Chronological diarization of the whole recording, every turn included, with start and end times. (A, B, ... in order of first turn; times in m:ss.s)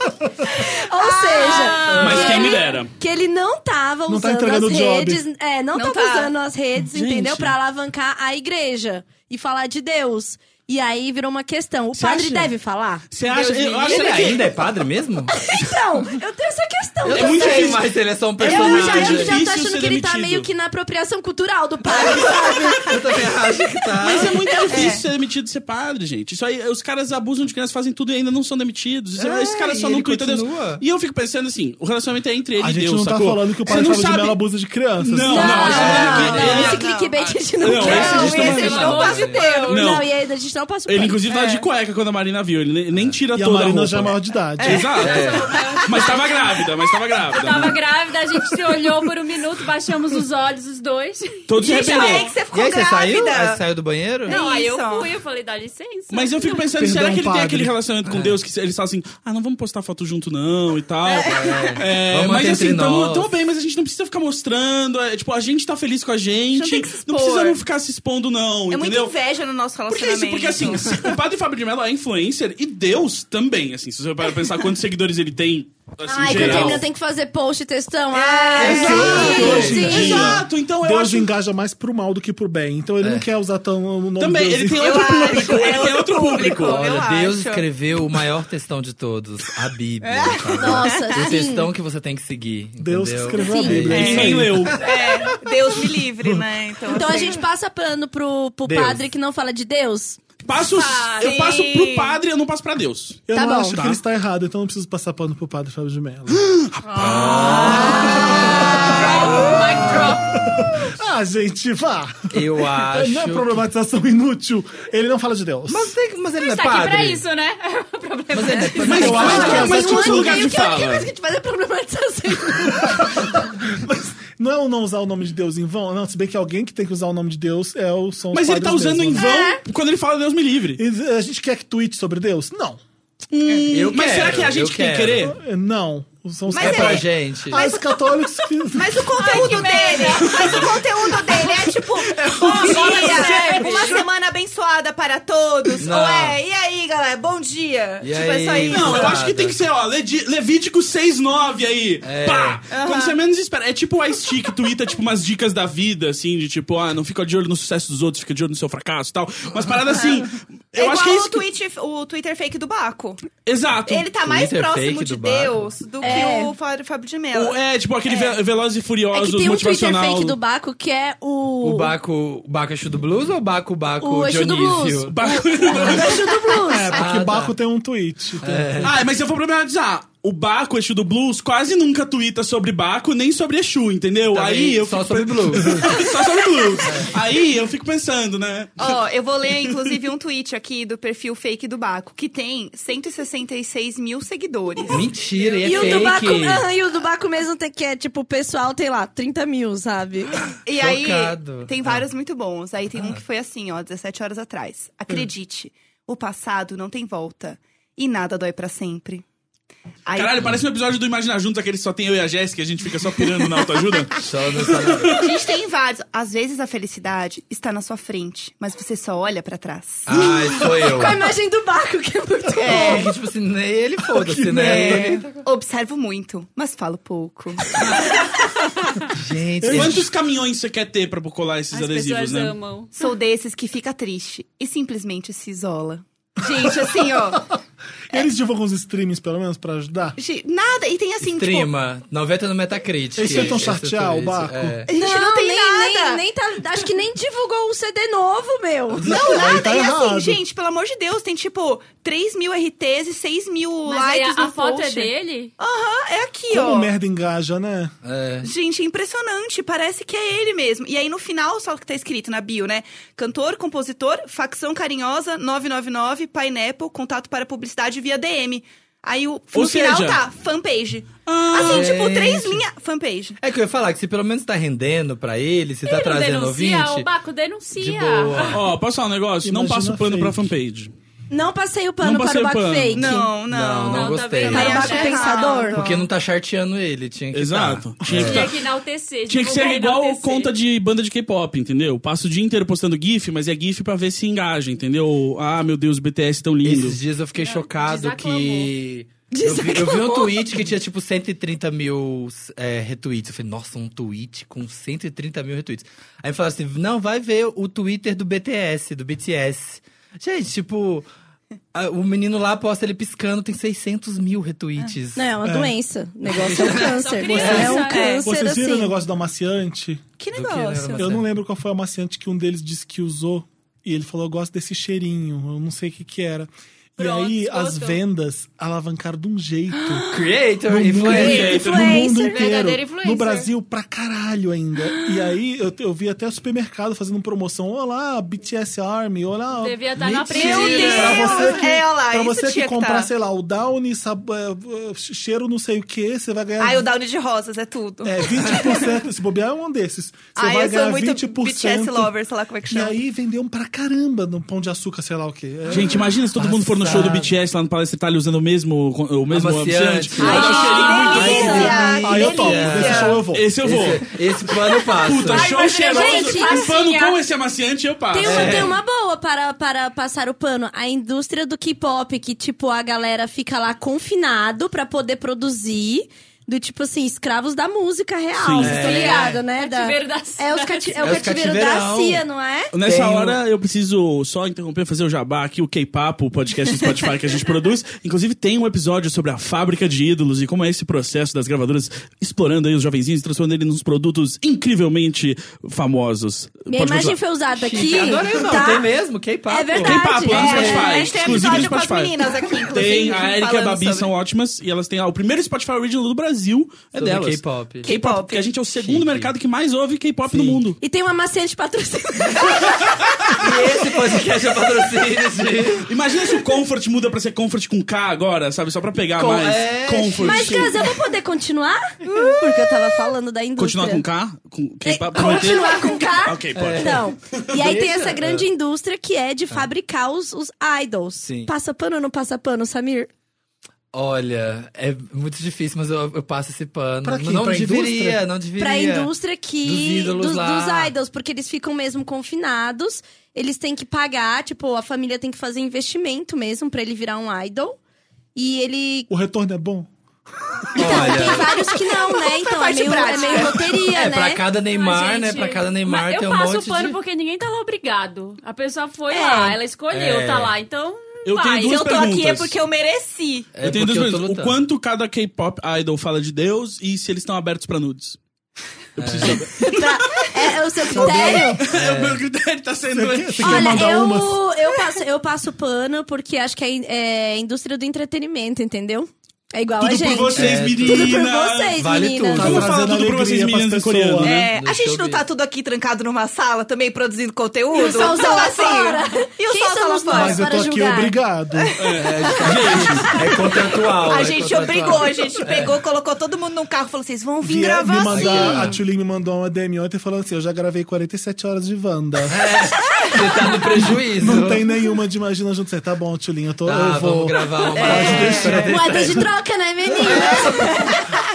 0:00.5-0:13.0 A
0:01.0-0:02.7 B
0:01.4-0:02.0 C
0:01.9-0:02.9 D
0:04.1-0:05.2 E
0:05.7-0:06.3 C
0:06.9-0:07.5 D
0:12.0-0:12.5 D
0:13.1-0:14.5 D
0:13.4-0:15.3 F
0:13.4-0:14.2 C
0:15.3-0:17.8 A
0:17.0-0:19.4 F
0:17.1-0:20.5 D
0:18.4-0:23.3 A
0:21.9-0:24.4 F
0:24.0-0:34.4 D
0:24.7-0:25.0 C
0:29.2-0:30.8 F
0:32.6-0:35.8 E
0:35.0-0:36.8 D
0:35.2-0:38.6 A
0:35.4-0:39.9 C
0:35.7-0:36.7 F
0:37.6-0:39.0 D
0:37.9-0:39.4 F
0:37.9-0:40.0 B
0:39.6-0:41.2 A
0:39.7-0:40.0 D
0:40.9-0:47.8 D
0:41.3-0:41.7 C
0:43.3-0:44.8 E
0:44.6-0:46.2 C
0:44.8-0:46.6 B
0:45.0-0:45.5 F
0:47.3-0:52.3 B
0:51.5-0:52.3 D
0:51.6-0:53.6 C
0:52.5-0:54.4 F
0:54.2-0:56.7 B
0:54.2-0:55.1 C
0:56.1-1:09.1 D
0:56.7-0:57.7 E
0:58.0-0:58.4 F
1:01.1-1:01.8 C
1:01.2-1:03.3 F
1:06.5-1:07.6 C
1:08.7-1:10.8 C
1:09.9-1:16.8 D
1:10.6-1:11.0 F
1:16.0-1:20.4 A
1:16.3-1:16.8 F
1:18.1-1:19.8 C
1:18.6-1:25.6 E
1:19.0-1:19.8 F
1:19.2-1:21.3 D
1:23.0-1:23.2 F
1:24.2-1:26.9 D
1:24.8-1:27.6 C
1:26.6-1:34.7 F
1:30.0-1:31.3 C
1:30.5-1:31.7 A
1:32.8-1:36.4 E
1:33.4-1:33.8 A
1:33.9-1:34.8 D
1:33.9-1:37.4 C
1:36.9-1:40.2 A
1:38.6-1:39.0 F
1:40.4-1:44.0 D
1:40.7-1:41.6 B
1:41.2-1:42.2 C
1:43.3-1:46.4 E
1:43.3-1:43.8 A
1:46.5-1:48.0 D
1:46.8-1:50.5 B
1:47.2-1:49.5 F
1:48.4-1:49.1 E
1:50.3-1:55.9 E
1:52.3-1:53.6 F
1:55.7-1:57.2 F
1:56.4-1:59.6 B
1:58.3-1:59.8 F
1:58.8-2:01.1 D
1:58.9-2:00.6 E
1:59.1-2:03.4 A
2:02.6-2:09.3 E
2:08.3-2:10.8 D
2:09.1-2:09.6 A
2:10.8-2:12.8 E
2:13.3-2:15.4 D
2:13.7-2:15.3 F
2:15.2-2:19.6 E
2:16.5-2:18.2 C
2:16.5-2:17.6 F
2:18.7-2:29.2 C
2:19.1-2:20.6 B
2:20.3-2:20.7 D
2:21.3-2:21.5 D
2:22.2-2:23.5 D
2:22.4-2:24.1 B
2:25.8-2:26.4 F
2:28.0-2:29.6 F
2:28.6-2:41.4 D
2:32.0-2:32.6 F
2:32.7-2:33.2 C
2:40.7-2:43.2 C
2:43.4-2:44.1 D
2:43.9-2:48.4 C
2:44.2-2:45.7 F
2:46.0-2:46.5 A
2:47.3-2:50.4 D
2:49.1-2:51.9 A
2:51.6-2:55.2 F
2:54.0-2:56.9 A
2:55.1-2:56.3 D
2:55.7-2:56.2 F
2:55.7-2:58.9 E
2:56.9-2:57.5 F
2:58.4-2:59.0 F
2:58.8-3:09.0 D
3:04.3-3:06.0 F
3:06.8-3:07.2 F
3:08.8-3:16.1 C
3:14.9-3:16.6 F
3:15.6-3:20.3 A
3:20.6-3:29.2 C
3:20.7-3:22.0 F
3:30.0-3:30.5 C
3:30.1-3:35.3 D
3:34.2-3:35.2 F
3:35.2-3:40.1 C
3:40.0-3:41.2 F
3:40.6-3:43.0 A
3:42.6-3:43.1 C
3:42.7-3:45.2 F
3:44.1-3:45.4 E
3:44.5-3:48.2 C
3:49.1-3:50.1 F
3:49.6-3:50.1 E
3:49.7-3:52.5 D
3:51.7-3:53.0 B
3:53.0-3:57.5 C
3:56.6-3:57.5 E
3:58.1-4:00.2 E
4:00.2-4:01.7 C
4:01.2-4:04.9 F
4:03.2-4:04.8 E
4:03.3-4:03.6 C
4:04.9-4:06.2 C
4:04.9-4:09.0 A
4:08.9-4:09.6 F
4:09.0-4:16.9 C
4:09.2-4:10.4 E
4:13.8-4:15.5 B
4:16.5-4:17.9 E
4:18.0-4:18.5 F
4:18.4-4:33.4 C
4:29.5-4:30.2 D
4:31.2-4:31.9 D
4:31.5-4:32.6 F
4:33.4-4:37.1 F
4:35.8-4:38.6 B
4:37.7-4:38.6 F
4:38.5-4:40.9 D
4:39.4-4:40.5 E
4:41.3-4:43.3 A
4:42.0-4:43.1 D
4:42.9-4:46.1 C
4:43.5-4:44.9 F
4:43.9-4:45.6 B
4:44.5-4:45.8 A
4:45.7-4:48.5 F
4:47.3-4:48.6 D
4:48.0-4:48.4 E
4:48.2-4:50.5 B
4:49.3-4:57.0 D
4:56.6-5:11.1 F
4:57.4-4:58.7 B
4:59.3-5:00.5 A
5:11.7-5:15.2 F
5:15.1-5:18.9 A
5:15.4-5:15.7 E
5:16.3-5:17.8 F
5:16.6-5:18.2 B
5:17.4-5:20.0 E
5:17.4-5:18.2 C
5:20.2-5:21.1 C
5:20.3-5:21.2 F
5:21.0-5:30.1 E
5:27.0-5:28.0 B
5:29.8-5:30.0 C
5:30.1-5:31.8 F
5:30.6-5:46.9 E
5:31.0-5:32.0 D
5:31.4-5:32.5 A
5:31.4-5:33.5 B
5:39.6-5:41.6 B
5:40.0-5:41.4 F
5:40.6-5:43.1 C
5:46.6-5:49.0 C
5:48.0-5:52.1 E
5:48.4-5:48.6 F
5:50.4-5:53.0 C
5:52.7-5:56.1 E
5:55.7-6:01.8 D
5:56.4-5:57.3 F
5:56.8-5:57.2 E
5:59.3-6:05.5 F
6:00.2-6:03.2 C
6:00.2-6:01.9 A
6:01.4-6:03.5 E
6:03.3-6:04.1 D
6:04.9-6:08.7 D
6:05.2-6:07.2 B
6:05.6-6:06.7 A
6:08.1-6:22.7 A
6:08.2-6:08.8 F
6:18.4-6:18.8 D
6:18.6-6:19.4 F
6:18.6-6:21.2 B
6:21.0-6:22.2 F
6:22.7-6:37.2 D
6:22.8-6:23.4 F
6:36.7-6:38.9 A
6:37.5-6:41.6 F
6:39.5-6:41.1 A
6:39.8-6:42.1 D
6:40.5-6:44.1 C
6:42.7-6:50.8 D
6:46.9-6:47.9 F
6:47.8-6:48.5 C
6:48.7-6:49.3 F
6:50.3-6:50.6 F
6:50.8-6:53.3 A
6:53.4-6:55.9 F
6:55.9-7:00.8 D
6:59.2-7:00.8 F
7:00.2-7:04.0 A
7:03.6-7:07.0 D
7:04.8-7:13.1 A
7:06.5-7:08.4 F
7:11.2-7:11.5 F
7:13.9-7:19.1 F
7:17.0-7:18.2 E
7:18.6-7:27.8 A
7:19.6-7:20.9 F
7:28.3-7:29.1 A
7:29.1-7:29.9 E
7:30.7-7:31.5 F
7:30.8-7:34.4 A
7:30.8-7:33.7 C
7:33.0-7:33.5 B
7:33.9-7:37.0 F
7:34.7-7:41.8 B
7:39.1-7:39.4 A
7:39.9-7:40.5 F
7:41.2-7:42.6 D
7:41.6-7:43.5 C
7:43.5-7:44.6 F
7:43.6-7:48.2 D
7:49.0-7:49.9 D
7:49.0-7:49.5 F
7:49.6-7:51.6 A
7:50.9-7:51.7 E
7:51.6-7:53.9 D
7:51.7-7:52.2 F
7:52.9-7:54.4 E
7:53.4-8:02.6 A
7:59.8-8:01.8 D
8:00.3-8:01.2 F
8:01.8-8:02.7 F
8:02.3-8:04.3 E
8:02.4-8:04.5 D
8:04.2-8:10.4 C
8:04.5-8:05.2 F
8:07.7-8:11.2 A
8:10.1-8:11.8 E
8:11.6-8:12.1 C
8:11.8-8:13.2 D
8:11.9-8:15.8 F
8:13.4-8:18.8 C
8:17.4-8:22.4 E
8:18.1-8:18.8 F
8:22.3-8:24.7 F
8:23.8-8:29.2 E
8:26.6-8:29.3 F
8:27.7-8:28.6 C
8:28.6-8:31.0 A
8:29.9-8:31.0 E
8:30.0-8:30.5 F